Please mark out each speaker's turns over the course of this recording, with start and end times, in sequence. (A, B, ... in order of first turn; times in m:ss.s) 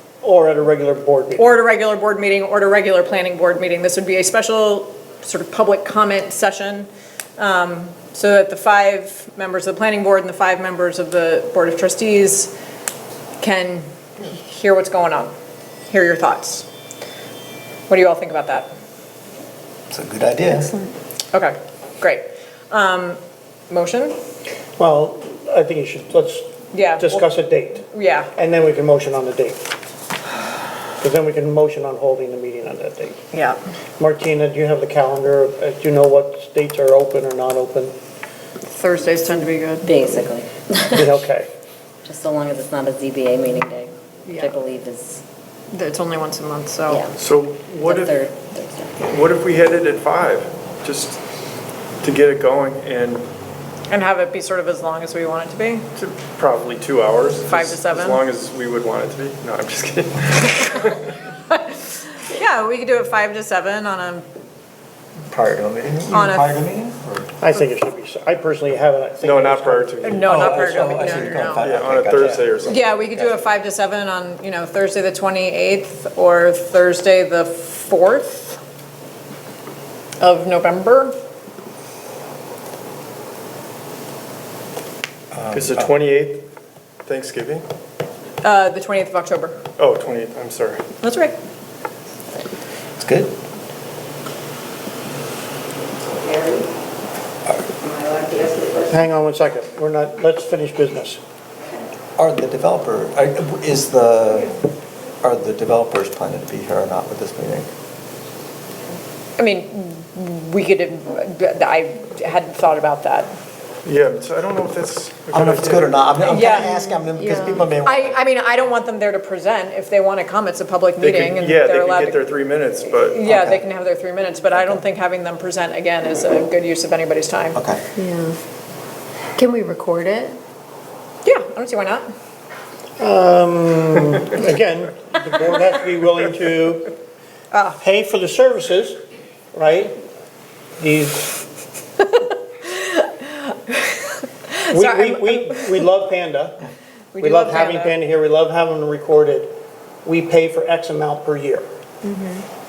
0:00.2-0:01.5 A
0:01.4-0:12.5 B
0:13.4-0:15.3 B
0:15.9-0:16.7 B
0:17.9-0:18.7 B
0:19.9-0:20.7 C
0:21.3-0:24.2 B
0:24.8-0:29.6 A
0:26.7-0:27.3 B
0:27.9-0:28.3 B
0:31.0-0:33.2 A
0:33.3-0:33.6 B
0:34.0-0:37.9 A
0:38.6-0:40.2 B
0:39.8-0:41.0 D
0:40.9-0:41.5 A
0:42.1-0:45.2 D
0:44.2-0:44.6 B
0:45.7-0:47.1 B
0:47.2-0:48.2 E
0:47.9-0:48.9 D
0:49.0-0:51.2 E
0:52.0-0:53.2 E
0:53.9-0:55.8 B
0:56.0-1:01.2 E
0:57.5-0:58.2 B
1:01.5-1:04.2 B
1:05.3-1:07.3 C
1:06.1-1:06.6 B
1:07.4-1:10.0 A
1:09.2-1:10.6 E
1:10.0-1:11.6 B
1:10.2-1:13.3 C
1:11.6-1:12.8 E
1:12.6-1:18.6 B
1:20.2-1:21.1 B
1:25.3-1:25.9 C
1:25.5-1:26.4 E
1:27.0-1:27.6 E
1:28.4-1:29.6 B
1:29.8-1:30.8 E
1:31.0-1:31.3 B
1:33.0-1:33.3 C
1:36.0-1:36.7 F
1:37.8-1:39.0 F
1:38.9-1:41.2 A
1:42.2-1:44.5 C
1:45.2-1:47.7 C
1:49.4-1:53.3 B
1:53.8-1:56.0 E
1:55.3-1:58.2 C
1:56.3-1:56.8 B
1:57.0-1:57.6 G
1:57.7-2:02.3 B
2:01.0-2:03.2 E
2:03.0-2:07.6 B
2:03.2-2:03.6 C
2:04.5-2:04.8 C
2:07.5-2:07.8 C
2:08.0-2:08.3 G
2:09.4-2:10.3 G
2:11.2-2:12.1 B
2:13.0-2:16.9 A
2:17.5-2:17.8 B
2:17.8-2:19.0 A
2:19.5-2:19.9 A
2:20.8-2:21.3 A
2:22.6-2:25.8 B
2:24.7-2:26.6 A
2:27.1-2:27.9 B
2:27.2-2:29.5 A
2:30.0-2:31.6 A
2:32.0-2:32.4 B